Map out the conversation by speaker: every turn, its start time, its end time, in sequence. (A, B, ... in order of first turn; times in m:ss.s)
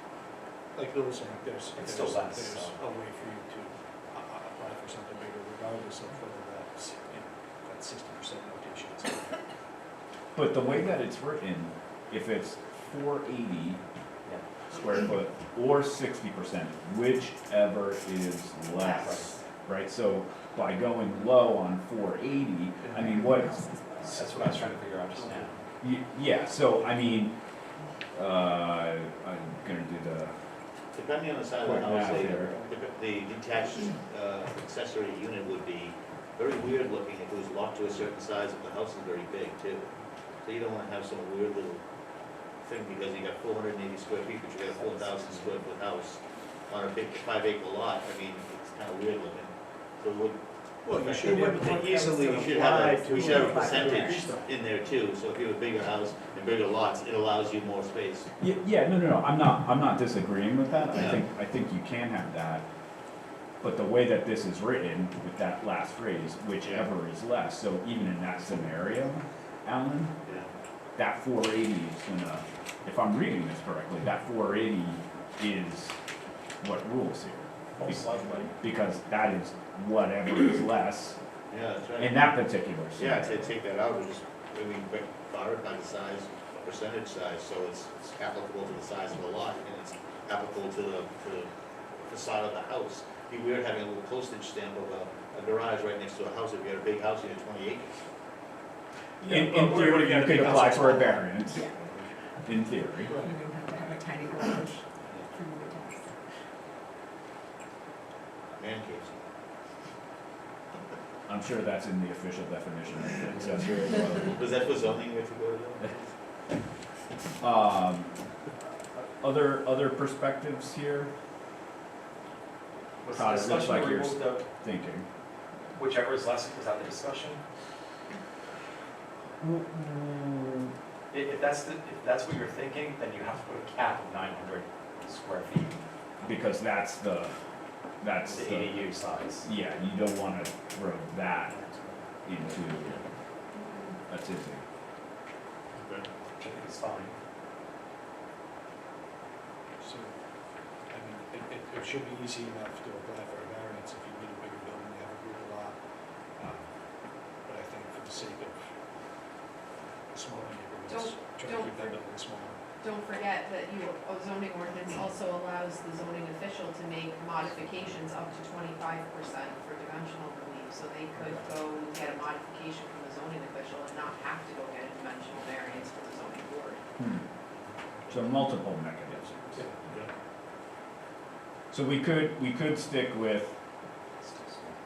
0:00.7-0:09.4 A
0:01.8-0:02.8 B
0:10.3-0:13.8 C
0:14.7-0:23.6 C
0:18.8-0:19.4 B
0:23.0-0:24.0 D
0:24.0-0:25.6 B
0:25.2-0:25.4 A
0:25.8-0:27.3 C
0:28.1-0:30.3 C
0:30.9-0:41.8 E
0:31.6-0:32.5 C
0:31.6-0:32.8 A
0:42.6-0:50.4 E
0:50.8-0:54.5 A
0:51.0-0:58.3 E
0:51.2-0:54.3 D
0:58.4-1:02.6 C
1:00.9-1:01.2 E
1:03.6-1:10.1 C
1:10.2-1:10.5 E
1:11.0-1:15.9 C
1:16.6-1:18.0 C
1:17.8-1:18.5 B
1:18.6-1:21.2 C
1:21.5-1:22.2 E
1:22.0-1:23.5 C
1:23.0-1:37.9 E
1:39.2-1:42.0 A
1:39.2-1:41.6 C
1:41.5-1:41.8 D
1:42.4-1:43.1 C
1:43.1-1:46.1 D
1:48.6-1:49.2 E
1:51.3-1:54.5 C
1:54.3-1:56.1 E
1:57.4-1:58.1 C
1:58.9-2:01.1 C
2:03.0-2:04.4 B
2:03.1-2:05.0 C
2:05.7-2:07.4 B
2:09.4-2:10.7 C
2:11.1-2:15.8 B
2:16.2-2:17.3 C
2:18.0-2:18.8 C
2:18.3-2:19.5 B
2:19.4-2:21.6 C
2:22.2-2:23.0 C
2:22.5-2:23.0 E
2:24.1-2:24.6 C
2:25.8-2:26.1 E
2:26.4-2:27.2 B
2:29.8-2:30.1 A
2:30.9-2:35.8 A
2:36.4-2:36.6 A
2:37.4-2:38.6 A
2:40.1-2:42.6 A
2:40.9-2:42.0 F
2:42.8-2:56.8 F
2:57.0-2:57.2 C
2:58.1-2:59.6 C
3:01.7-3:03.5 C
3:04.2-3:04.7 B